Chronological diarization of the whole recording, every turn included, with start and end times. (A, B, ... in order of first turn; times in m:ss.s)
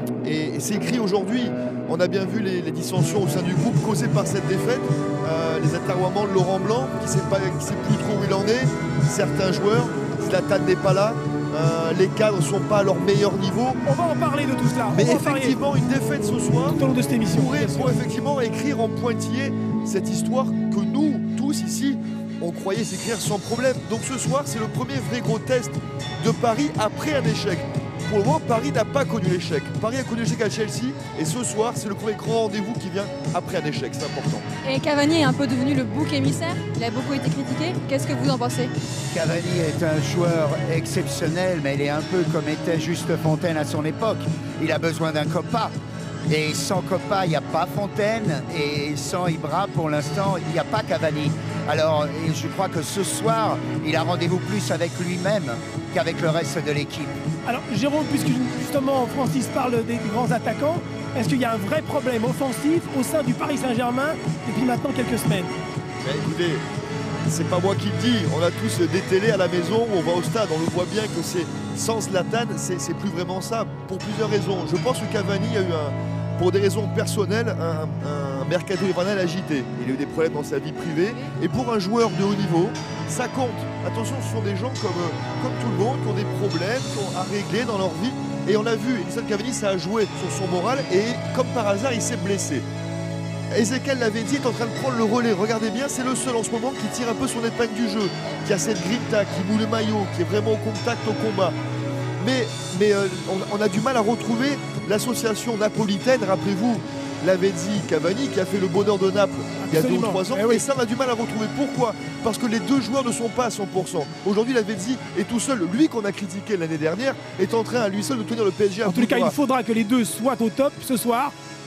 0:00.2-0:13.8 A
0:13.8-0:15.6 B
0:14.9-0:34.5 A
0:16.7-0:18.0 B
0:34.6-0:38.7 C
0:39.1-0:45.8 D
0:46.3-0:57.2 D
0:57.4-1:05.6 B
1:06.0-1:06.6 A
1:07.3-1:32.6 A
1:33.5-1:41.6 A
1:42.2-1:59.4 A
1:49.6-1:50.6 B
1:58.8-2:01.3 B